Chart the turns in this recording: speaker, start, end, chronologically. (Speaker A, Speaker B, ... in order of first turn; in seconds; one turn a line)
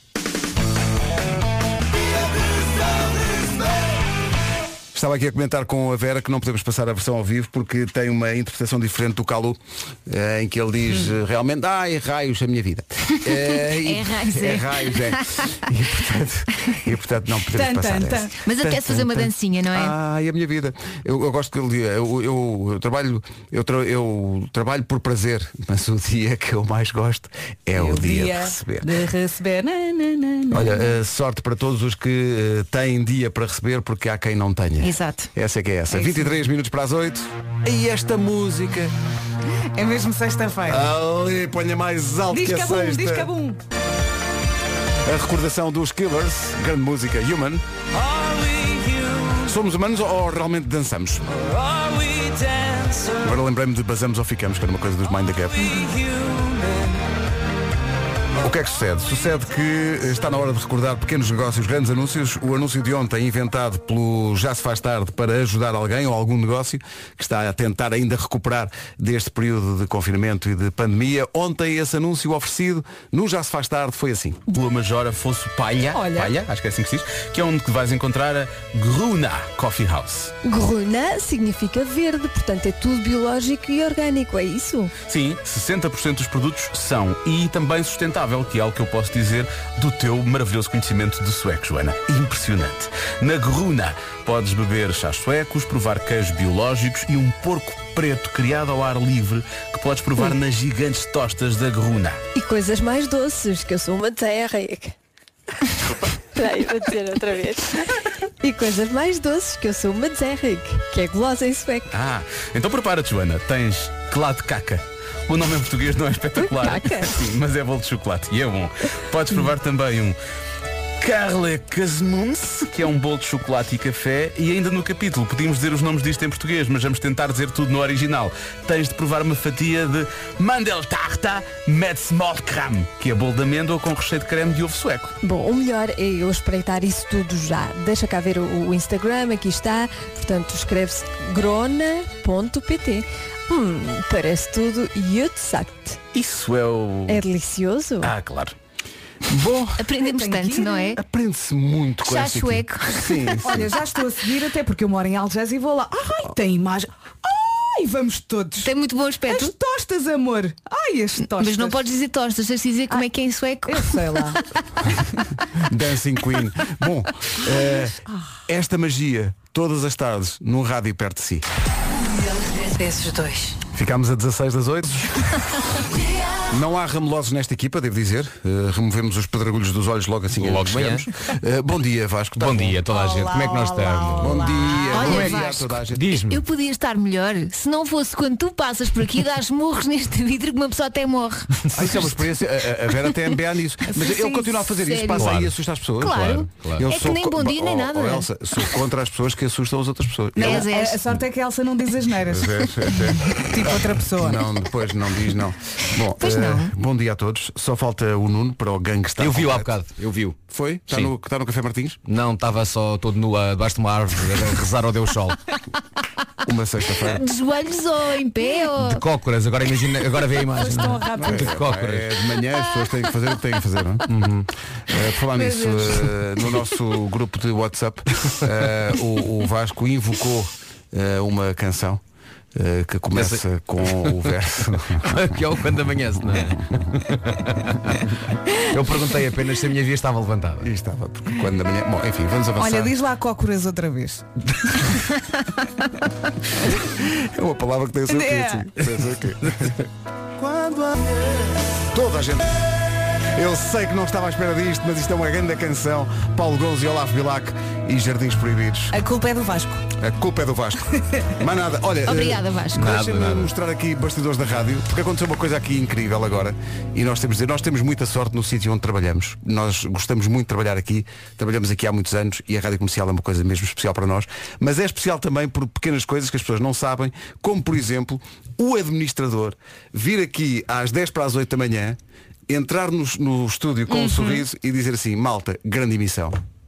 Speaker A: 4.9-28.9
Speaker B: 13.6-15.2
Speaker C: 17.5-18.3
Speaker B: 18.4-19.9
Speaker C: 27.7-30.8
Speaker A: 30.5-38.9
Speaker B: 34.8-35.3
Speaker C: 35.9-36.4
Speaker C: 39.8-40.9
Speaker A: 40.6-43.3
Speaker C: 42.3-43.6
Speaker A: 45.0-47.6
Speaker A: 49.4-51.5
Speaker A: 53.1-56.0
Speaker A: 58.4-74.4
Speaker D: 74.5-80.3
Speaker C: 75.9-76.3
Speaker E: 80.4-84.9
Speaker D: 85.0-102.2
Speaker E: 102.3-104.9
Speaker E: 106.2-107.8
Speaker E: 108.4-111.9
Speaker D: 111.9-120.2
Speaker E: 116.6-117.1
Speaker D: 121.0-135.1
Speaker E: 135.2-146.0
Speaker D: 146.1-147.2
Speaker E: 147.1-148.1
Speaker D: 148.0-148.5
Speaker A: 149.3-149.9
Speaker B: 149.8-151.0
Speaker C: 150.0-150.9
Speaker A: 150.9-153.7
Speaker B: 152.0-153.5
Speaker C: 153.4-158.7
Speaker B: 158.6-159.5
Speaker C: 159.3-161.8
Speaker B: 161.3-164.4
Speaker C: 163.7-164.4
Speaker A: 165.6-171.4
Speaker A: 173.7-175.6
Speaker A: 176.5-182.8
Speaker F: 180.3-181.1
Speaker F: 182.4-184.4
Speaker C: 182.9-185.0
Speaker A: 184.2-186.2
Speaker B: 184.9-185.8
Speaker F: 185.0-186.4
Speaker B: 186.3-191.5
Speaker A: 191.7-200.7
Speaker C: 193.9-194.5
Speaker B: 194.8-195.3
Speaker F: 195.2-195.5
Speaker B: 196.0-198.3
Speaker F: 196.1-196.9
Speaker C: 200.3-204.4
Speaker B: 200.4-201.0
Speaker A: 202.3-209.7
Speaker B: 206.2-206.7
Speaker F: 209.2-210.4
Speaker A: 210.5-212.0
Speaker F: 212.1-215.4
Speaker A: 216.4-217.2
Speaker B: 217.1-219.0
Speaker F: 218.8-222.1
Speaker C: 220.5-221.5
Speaker A: 221.2-224.1
Speaker F: 224.1-224.5
Speaker A: 224.9-232.0
Speaker B: 225.4-225.9
Speaker A: 232.5-235.3
Speaker F: 233.1-233.4
Speaker F: 235.0-238.0
Speaker F: 238.6-240.7
Speaker A: 240.6-242.9
Speaker C: 242.6-244.2
Speaker A: 246.9-249.8
Speaker C: 248.1-248.7
Speaker A: 250.4-251.2
Speaker A: 251.9-252.6
Speaker A: 253.3-258.9
Speaker C: 258.9-259.8
Speaker A: 260.0-286.4
Speaker B: 262.0-262.9
Speaker F: 262.7-263.5
Speaker C: 283.9-284.4